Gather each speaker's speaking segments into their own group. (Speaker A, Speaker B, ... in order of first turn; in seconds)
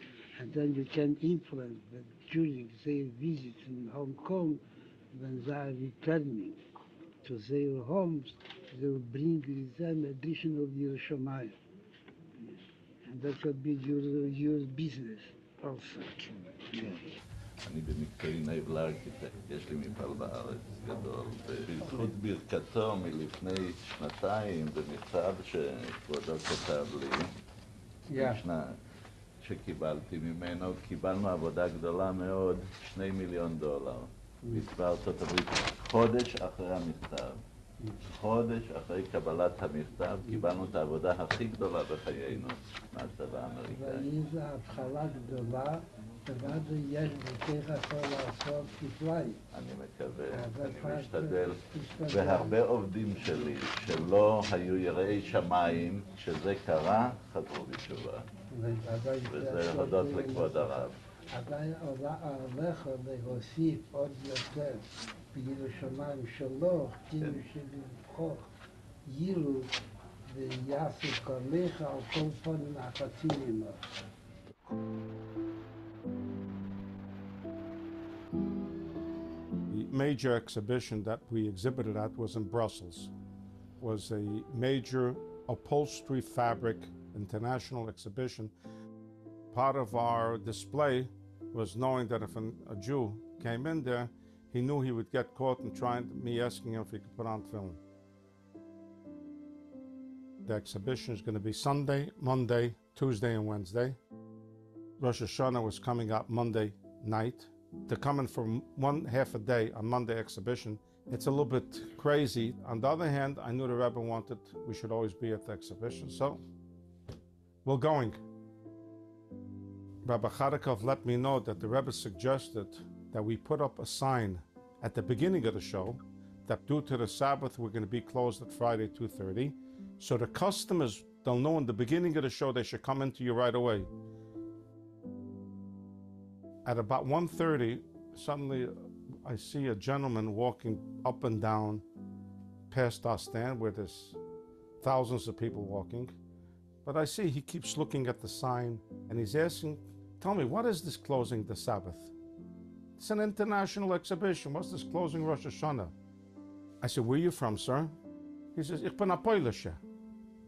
Speaker A: 0.4-4.6, 5.1-6.6, 7.2-11.6, 13.1-17.0, 21.8-22.1, 28.1-28.4, 43.7-49.4, 50.3-52.6, 58.5-68.5, 69.1-69.7, 70.3-73.9
Speaker B: 17.6-27.3, 28.1-28.8, 29.4-37.4, 38.1-44.1, 49.5-58.3, 59.3-60.9, 67.2-67.5
Speaker C: 79.7-83.1, 83.8-88.5, 89.5-97.8, 100.4-104.0, 105.0-116.4, 117.6-118.2, 120.0-133.9, 136.6-141.8, 142.7-144.2, 144.8-146.1, 146.8-152.1, 153.0-155.9, 156.8-157.9, 158.5-159.8